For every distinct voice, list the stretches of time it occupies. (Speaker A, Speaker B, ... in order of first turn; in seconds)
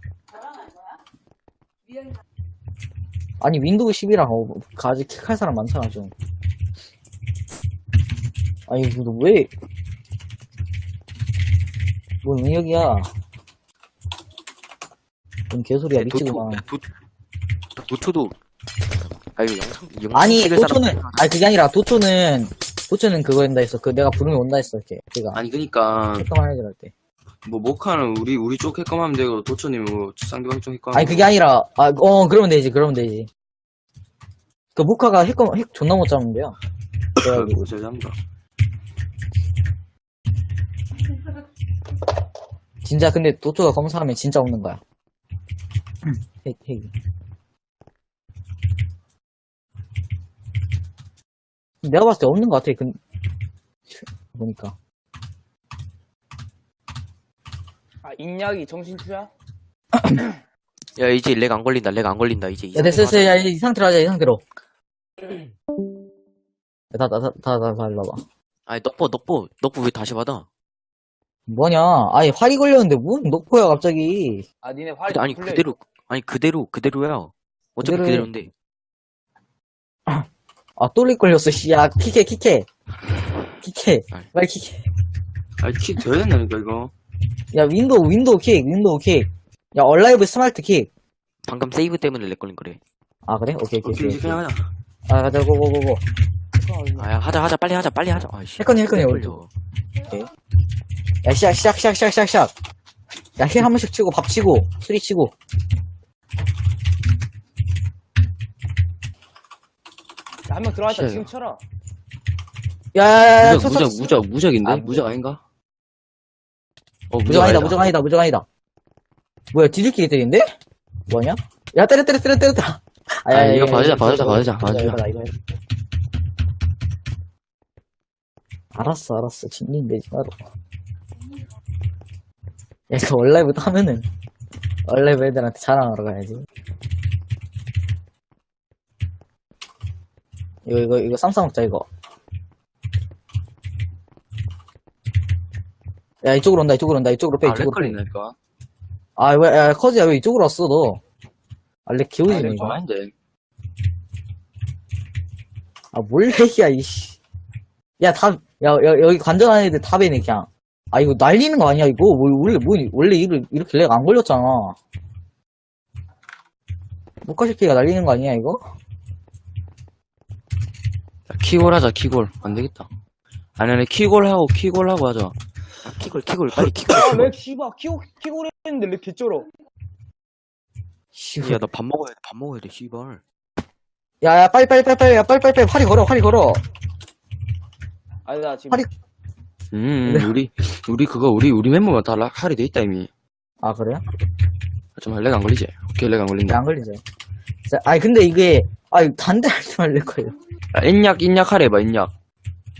Speaker A: 3.4-6.1, 8.7-9.5, 12.2-13.1, 15.5-16.6, 20.1-25.4, 26.2-26.9, 30.9-33.3, 34.7-36.6, 37.2-37.7, 42.8-44.8, 46.0-46.9, 51.8-53.0, 53.9-54.7, 60.0-60.2, 62.7-64.4, 66.9-68.2, 71.5-74.5, 77.8-78.3, 80.8-82.7, 83.6-84.8, 87.5-90.9, 93.2-94.4, 95.1-96.0, 98.6-99.4, 100.0-100.3, 101.2-102.5, 103.4-105.3, 112.9-115.1, 117.2-118.4, 119.5-120.5, 121.1-125.4, 128.7-130.3, 132.9-134.1, 134.9-136.4, 140.6-141.8, 146.2-148.0, 149.2-151.0, 151.8-152.8, 155.9-157.2, 158.0-164.8, 167.2-168.6, 181.1-181.6, 184.2-186.6, 190.0-190.3, 193.6-194.0, 196.5-197.0, 197.7-200.3
Speaker B: 15.9-16.8, 17.8-18.3, 19.0-21.3, 61.0-63.5, 68.7-70.5, 75.1-78.5, 91.4-92.8, 97.0-99.5, 175.8-177.3, 181.4-183.2
Speaker C: 25.3-26.3, 27.4-31.3, 37.2-38.1, 85.6-86.9, 93.8-94.7, 110.9-111.3, 113.4-115.4, 117.1-117.8, 123.3-125.0, 147.4-148.3, 152.3-153.1, 171.3-172.9, 173.6-175.3, 189.7-193.1, 194.9-196.6, 200.7-202.1
Speaker D: 58.0-59.3, 74.6-75.7, 96.6-97.1, 110.5-111.6, 176.9-179.5, 188.2-188.8